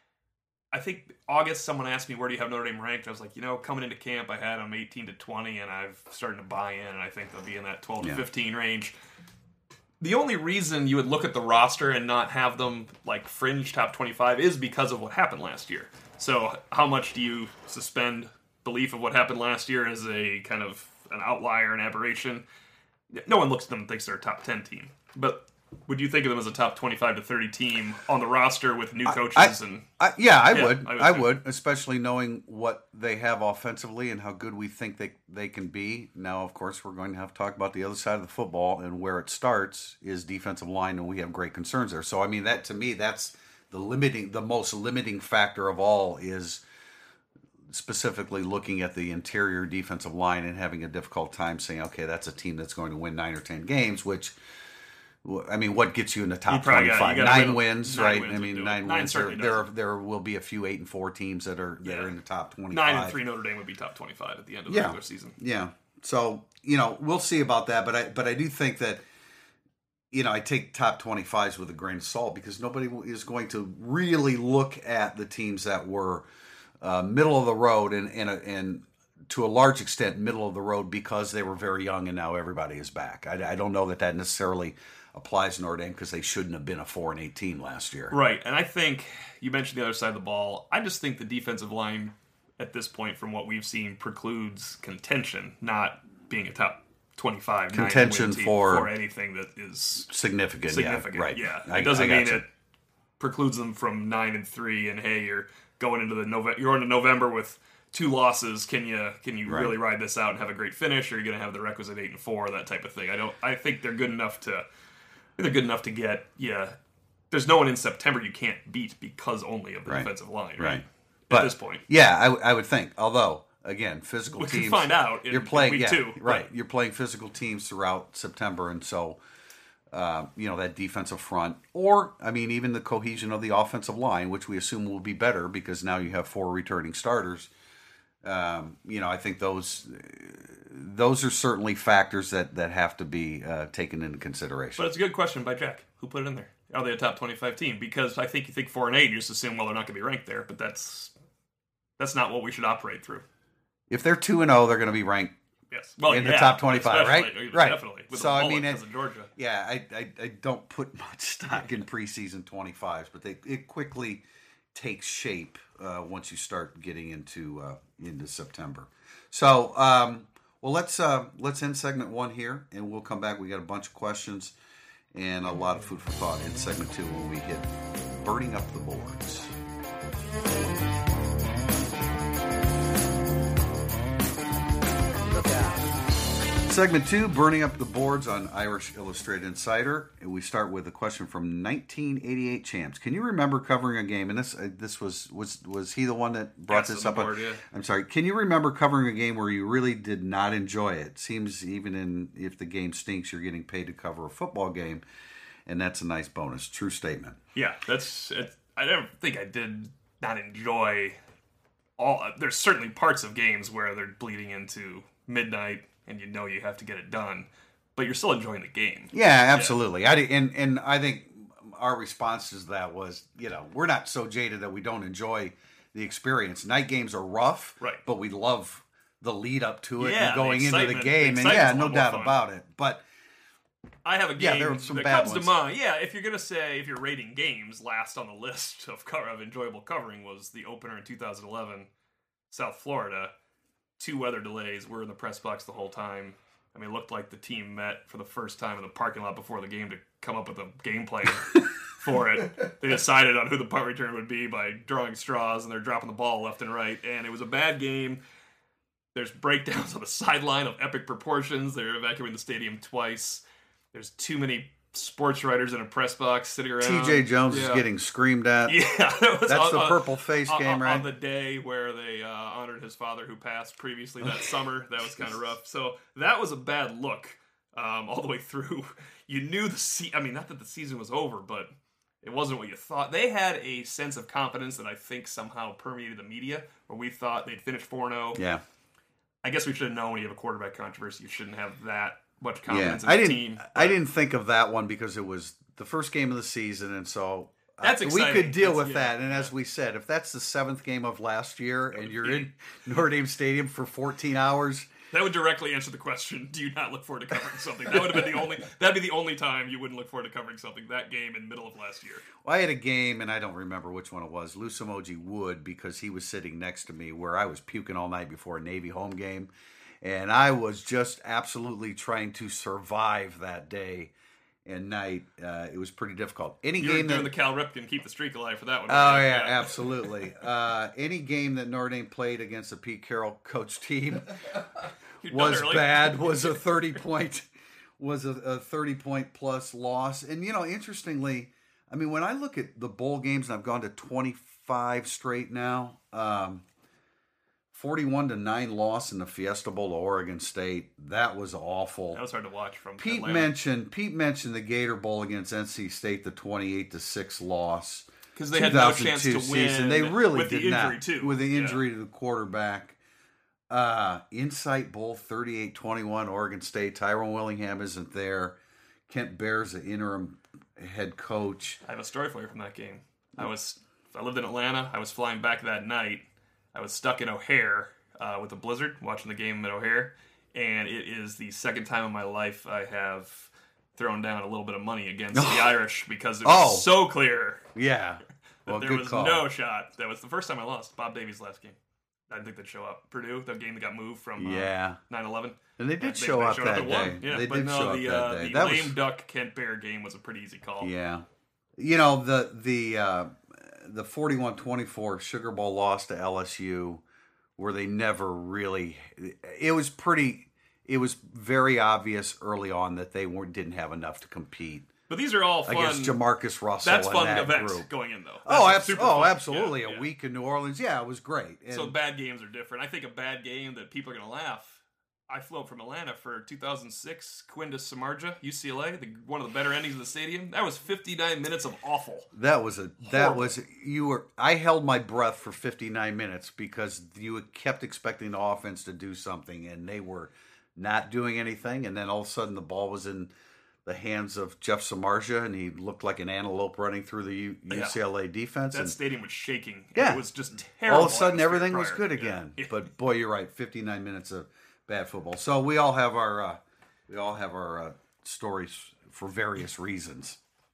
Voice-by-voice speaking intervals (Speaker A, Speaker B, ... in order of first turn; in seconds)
Speaker A: 0.7-8.9, 10.0-22.4, 23.1-29.9, 30.5-31.3, 56.5-59.6, 61.8-62.1, 62.7-65.3, 88.1-100.1, 100.7-102.5, 103.2-114.6, 115.4-116.8, 117.3-121.8, 124.4-126.5, 144.8-151.1, 152.0-153.2, 155.7-159.3, 196.7-197.6, 207.5-211.2, 212.0-219.8, 230.0-232.4, 234.0-241.9, 242.5-243.3, 244.0-258.2, 259.1-267.8, 268.6-281.7, 282.2-288.4, 289.4-294.0, 297.8-299.5, 301.9-302.5, 305.1-312.2, 326.8-330.1, 335.2-336.6, 352.1-353.5, 358.4-361.8, 371.8-387.7, 388.6-391.8, 392.3-400.9, 415.1-416.2, 416.8-420.1, 421.7-432.3, 433.0-433.6, 447.7-448.0, 448.7-452.7
Speaker B: 29.1-46.6, 47.7-54.3, 55.2-63.2, 64.7-69.0, 70.1-76.2, 76.8-88.1, 97.7-98.9, 100.1-102.4, 109.5-109.7, 119.9-129.2, 129.9-137.5, 138.2-144.9, 153.9-155.3, 156.1-158.8, 159.3-174.5, 175.1-179.5, 185.2-185.8, 186.7-205.0, 205.7-207.4, 219.1-233.0, 234.4-235.5, 266.8-268.8, 269.5-271.1, 274.2-274.5, 288.4-288.6, 292.7-304.9, 312.4-319.5, 320.0-324.1, 324.6-327.3, 328.9-334.6, 335.2-346.6, 347.7-352.2, 353.0-363.0, 363.7-368.6, 369.1-371.8, 385.3-385.8, 386.4-386.9, 387.7-389.4, 394.4-395.0, 395.8-398.9, 400.8-401.2, 401.8-407.0, 407.6-414.9, 415.6-417.9, 418.4-421.9, 432.3-443.3, 443.8-448.9, 449.9-450.2, 450.8-460.4